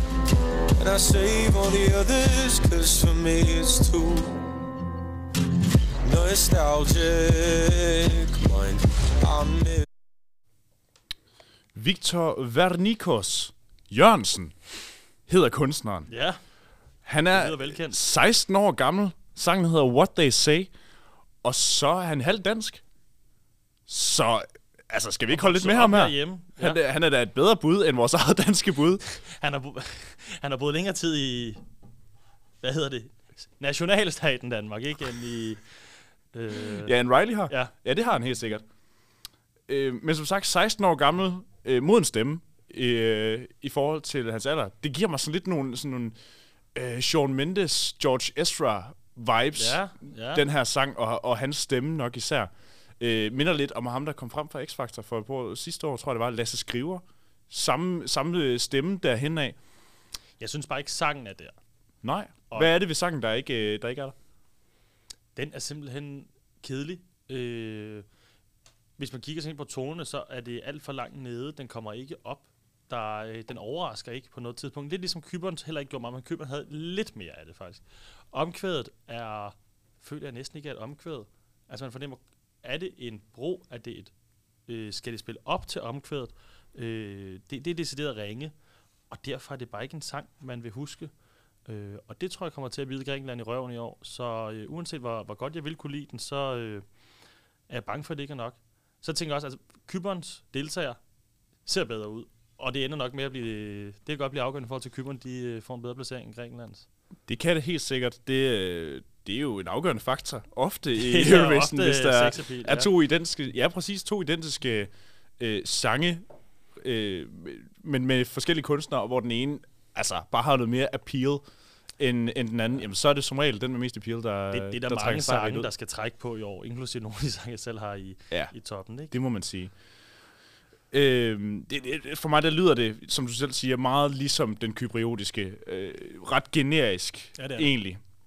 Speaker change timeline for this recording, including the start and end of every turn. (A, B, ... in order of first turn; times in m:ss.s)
0:00.8-0:04.4 A
0:06.0-0:09.8 A
0:11.7-0:14.6 B
0:15.3-0:16.1 B
0:16.1-0:16.4 C
0:17.0-0:20.7 B
0:17.3-0:18.0 C
0:21.4-0:22.8 B
0:23.9-0:29.0 B
0:25.3-0:26.8 C
0:29.3-0:31.6 C
0:32.6-0:35.8 C
0:36.3-0:36.9 C
0:36.8-0:38.6 B
0:39.7-0:46.2 B
0:46.7-0:59.6 B
0:49.6-0:50.4 C
1:00.4-1:01.5 C
1:02.0-1:04.1 B
1:05.4-1:08.0 C
1:09.0-1:24.1 C
1:24.7-1:28.5 C
1:29.1-1:31.1 C
1:31.7-1:36.8 C
1:37.7-1:41.0 C
1:41.6-1:46.8 C
1:47.3-1:56.2 B
1:51.0-1:52.9 C
1:56.8-2:01.4 B
2:02.0-2:05.7 B
2:04.5-2:09.1 C
2:09.1-2:09.7 B
2:10.9-2:18.0 B
2:17.4-2:17.7 C